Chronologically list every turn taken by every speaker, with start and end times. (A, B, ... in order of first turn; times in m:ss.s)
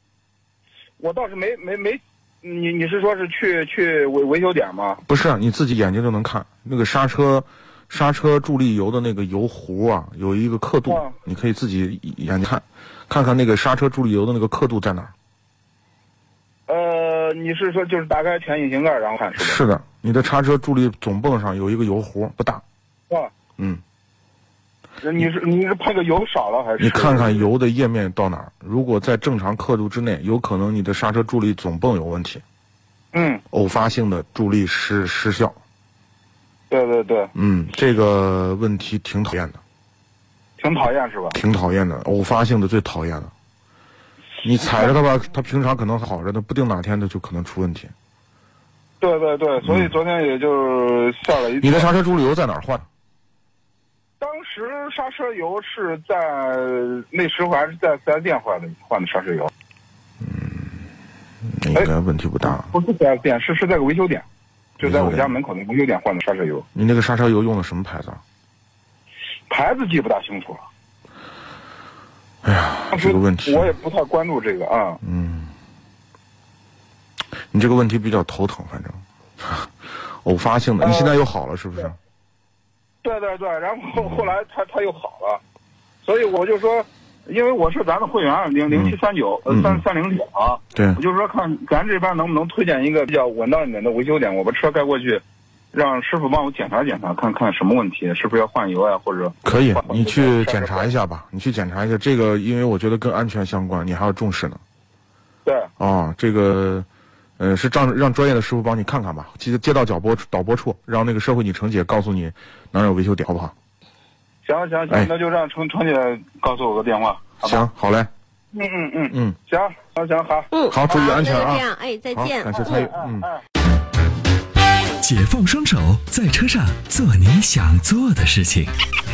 0:01.0-0:05.0 A
0:05.0-0:15.1 B
0:10.9-0:11.1 A
0:16.7-0:19.6 A
0:19.4-0:22.6 B
0:25.0-0:27.4 A
0:26.8-0:32.4 B
0:33.1-0:33.4 A
0:33.5-0:35.6 B
0:36.7-0:37.3 A
0:37.4-0:39.6 B
0:40.6-0:41.4 A
0:41.3-0:43.3 B
0:44.4-0:47.9 B
0:49.0-0:51.9 A
0:49.6-0:49.9 B
0:51.6-0:52.9 B
0:54.2-0:59.5 A
1:00.2-1:00.6 B
1:01.5-1:02.7 B
1:02.5-1:04.2 A
1:04.8-1:05.4 B
1:04.8-1:06.7 A
1:06.8-1:08.2 B
1:09.5-1:10.7 A
1:12.4-1:13.7 B
1:12.9-1:15.0 A
1:15.0-1:15.5 B
1:17.5-1:19.7 B
1:20.2-1:22.0 B
1:20.8-1:21.2 A
1:23.0-1:25.4 A
1:26.0-1:40.9 A
1:28.7-1:29.0 B
1:29.5-1:29.8 B
1:30.8-1:31.0 B
1:39.4-1:44.6 B
1:45.4-1:45.7 A
1:45.8-1:46.9 B
1:47.4-1:53.5 B
1:54.4-1:57.7 A
1:57.4-1:58.1 B
1:58.5-2:00.5 A
1:59.1-1:59.4 B
2:00.5-2:02.9 C
2:00.7-2:03.3 B
2:02.5-2:03.4 A
2:05.0-2:08.8 D